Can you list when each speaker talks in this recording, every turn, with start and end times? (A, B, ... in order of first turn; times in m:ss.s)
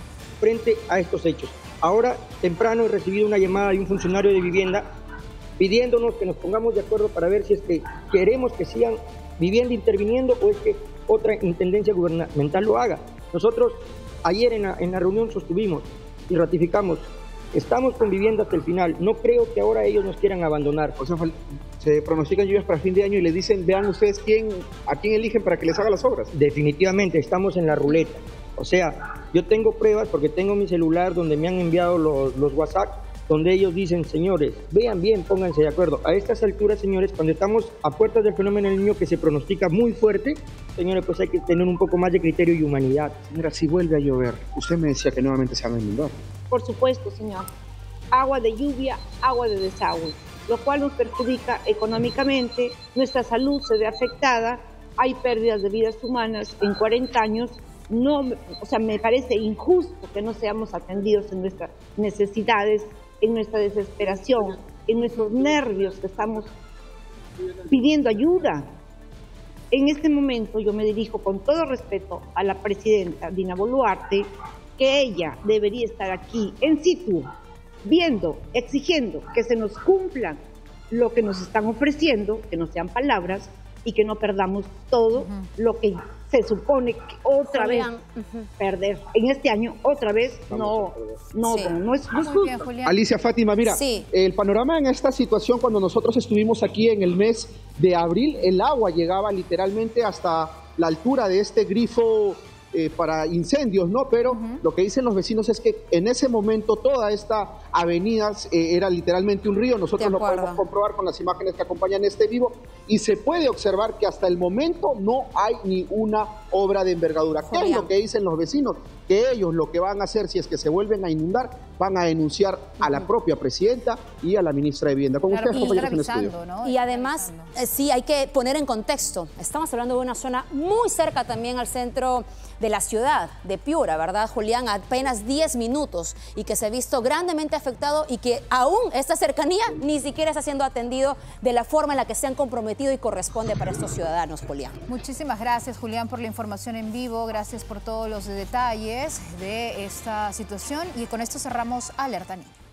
0:00.4-0:04.9 A
0:05.6-0:21.0 A
0:21.0-0:26.3 B
0:26.3-0:43.2 A
0:43.3-0:46.2 B
0:46.5-0:47.5 C
0:48.1-1:06.5 C
1:07.7-1:08.7 C
1:09.7-1:14.3 C
1:14.8-1:17.3 C
1:17.8-1:27.9 C
1:25.2-1:25.5 D
1:27.5-1:28.5 E
1:28.6-1:32.6 C
1:30.5-1:31.2 A
1:31.4-1:31.8 E
1:32.1-1:33.0 D
1:32.8-2:06.4 B
1:33.6-1:34.1 E
1:44.3-1:44.6 D
1:50.0-1:50.6 E
1:57.4-1:57.9 E
2:05.3-2:07.5 D
2:06.6-2:24.8 E
2:24.9-2:32.5 D